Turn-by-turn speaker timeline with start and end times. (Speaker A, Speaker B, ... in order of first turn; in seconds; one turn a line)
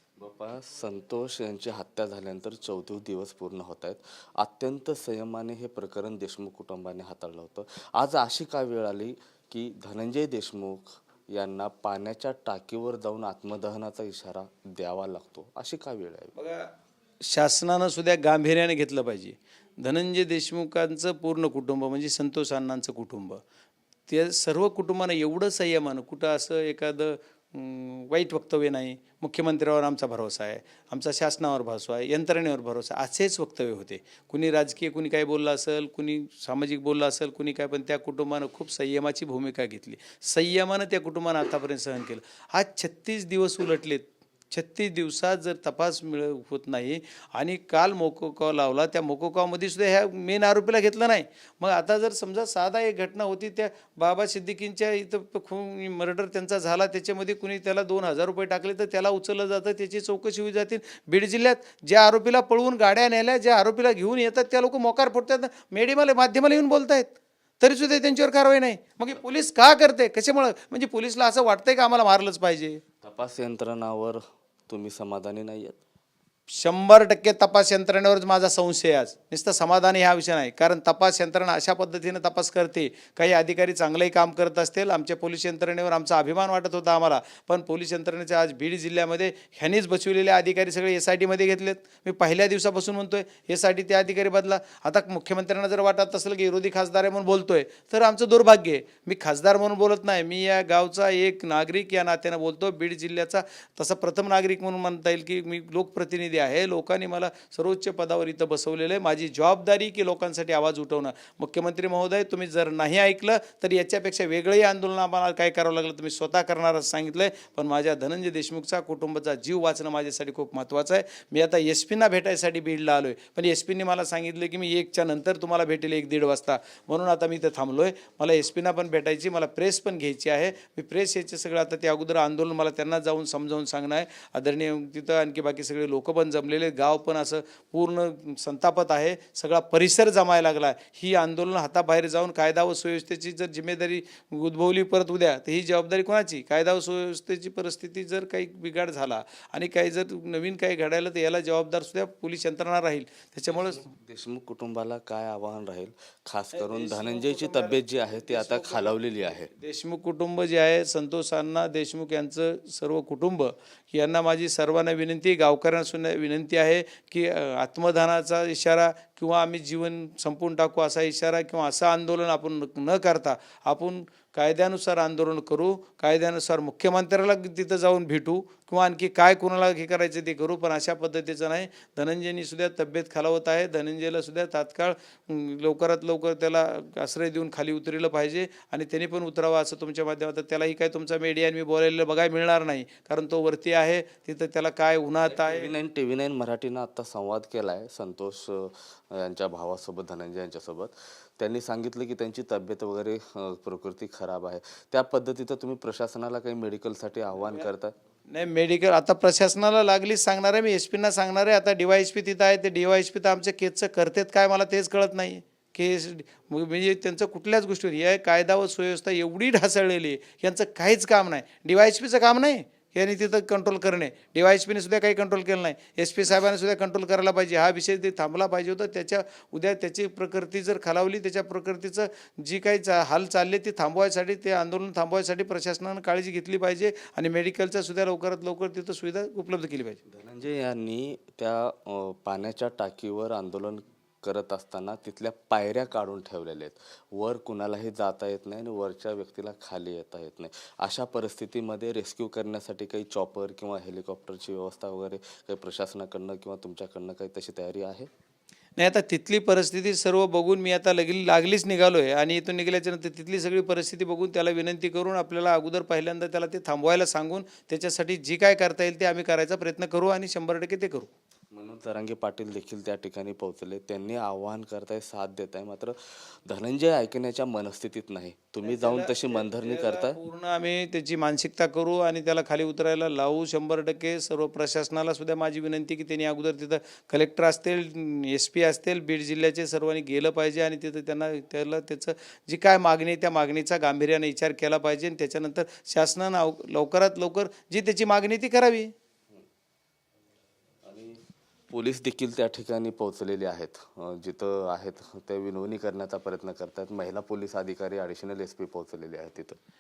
Speaker A: 0.2-16.3
Speaker B: 16.3-16.7
Speaker B: 17.3-23.4
Speaker B: 24.1-72.8
Speaker A: 73.0-75.8
Speaker B: 76.5-153.8
Speaker A: 153.6-159.5
Speaker B: 156.5-195.7
Speaker A: 195.3-207.9
Speaker B: 208.3-240.0
Speaker A: 240.1-258.1
Speaker B: 258.8-271.1
Speaker A: 271.5-280.2
Speaker B: 278.6-298.9
Speaker A: 300.8-309.6